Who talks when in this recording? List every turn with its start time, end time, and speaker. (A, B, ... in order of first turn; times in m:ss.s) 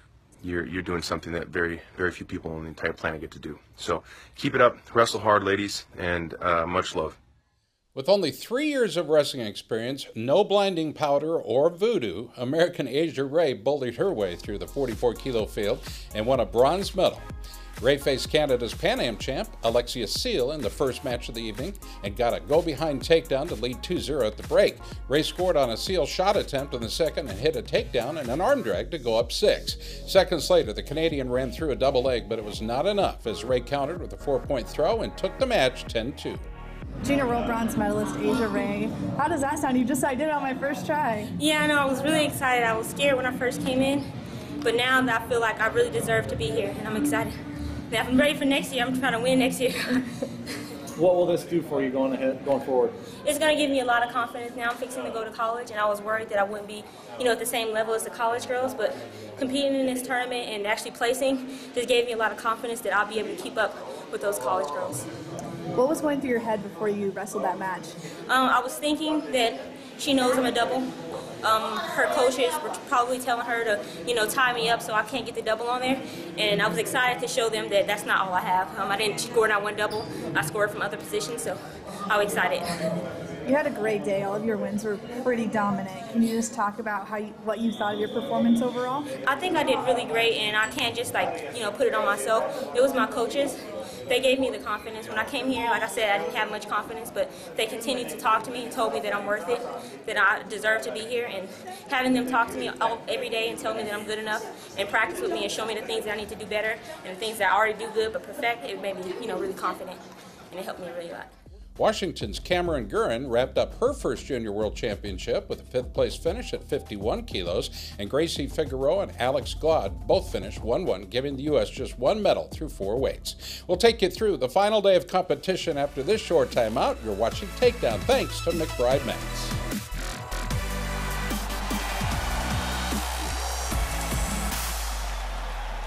0:00.4-0:07.2 A
0:07.9-0:17.2 B
0:17.8-0:36.4 B
0:37.0-0:41.3 C
0:41.4-0:44.0 D
0:44.6-0:47.3 D
0:47.9-0:50.1 D
0:50.9-0:53.0 E
0:53.2-1:05.0 D
1:05.7-1:07.9 C
1:08.3-1:10.9 D
1:11.4-1:22.8 D
1:23.4-1:29.1 C
1:29.2-1:33.6 D
1:34.1-1:50.0 D
1:50.5-1:51.3 D
1:51.8-2:09.6 B